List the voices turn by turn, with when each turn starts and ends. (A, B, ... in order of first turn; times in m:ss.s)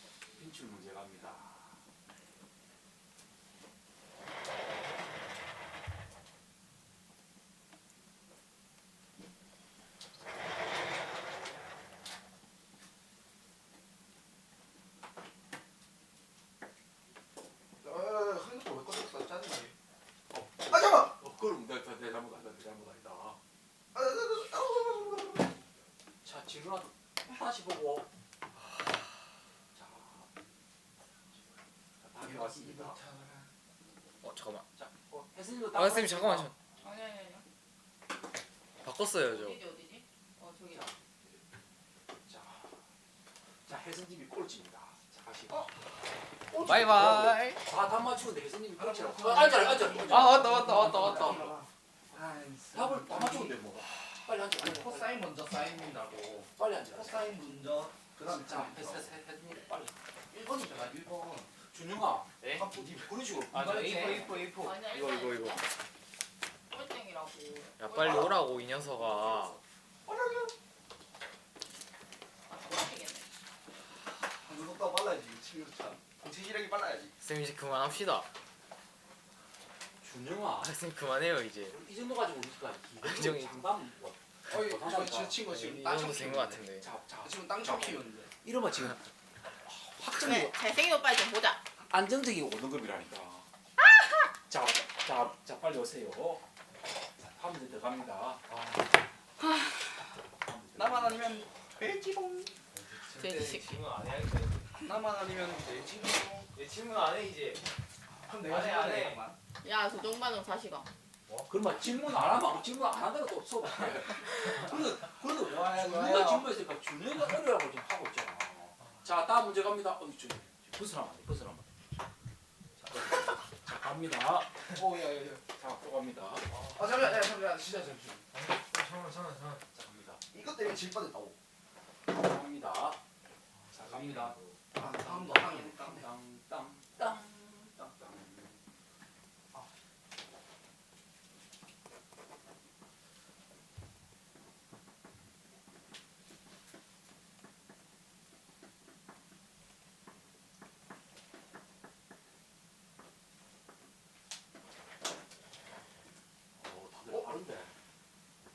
0:00.3-0:01.8 A
0:17.8-0:19.7 B
0:20.3-0:23.4 A
0:20.7-0:21.1 B
0:23.9-0:25.6 B
0:26.2-0:28.1 A
0:29.7-0:30.3 A
0:32.0-0:33.0 A
0:32.2-0:33.5 B
0:34.2-0:34.7 C
0:34.7-0:36.5 A
0:35.7-0:36.6 C
0:36.8-0:37.4 D
0:38.8-0:39.6 C
0:39.2-0:40.9 D
0:40.7-0:41.4 A
0:42.3-0:42.8 A
0:43.7-0:45.7 A
0:46.5-0:51.5 A
0:46.6-0:47.6 C
0:48.8-0:53.6 B
0:50.1-0:51.5 C
0:52.7-0:55.2 A
0:54.6-0:59.1 B
0:56.6-0:57.3 A
0:58.3-1:00.0 A
1:00.3-1:01.5 B
1:01.7-1:04.4 A
1:02.4-1:02.7 C
1:02.5-1:04.7 B
1:03.5-1:05.6 C
1:04.6-1:05.7 D
1:06.7-1:08.3 D
1:07.8-1:09.6 C
1:08.0-1:08.2 B
1:10.1-1:10.5 B
1:12.5-1:13.3 D
1:14.4-1:17.2 B
1:17.2-1:18.3 C
1:20.0-1:20.8 A
1:20.6-1:21.8 C
1:21.7-1:25.4 A
1:23.0-1:23.7 C
1:24.5-1:26.6 B
1:25.4-1:26.9 C
1:26.8-1:29.0 A
1:27.2-1:28.3 B
1:29.6-1:30.6 A
1:30.2-1:31.6 D
1:31.9-1:33.5 A
1:34.5-1:36.4 A
1:37.2-1:38.5 A
1:39.4-1:40.1 D
1:40.4-1:41.3 A
1:40.8-1:42.6 B
1:42.7-1:44.9 C
1:43.2-1:43.7 D
1:44.8-1:46.5 B
1:46.5-1:47.6 C
1:48.2-1:49.4 B
1:48.4-1:49.2 C
1:49.6-1:50.9 D
1:51.5-2:01.7 A
1:55.3-1:56.5 B
2:02.9-2:04.6 A
2:04.7-2:05.4 B
2:05.6-2:06.5 A
2:06.5-2:07.2 C
2:06.7-2:08.3 B
2:08.3-2:09.6 C
2:09.7-2:10.2 A
2:10.3-2:11.4 B
2:12.1-2:13.0 A
2:13.5-2:14.6 C
2:13.7-2:18.6 A
2:14.8-2:16.1 B
2:36.6-2:37.7 A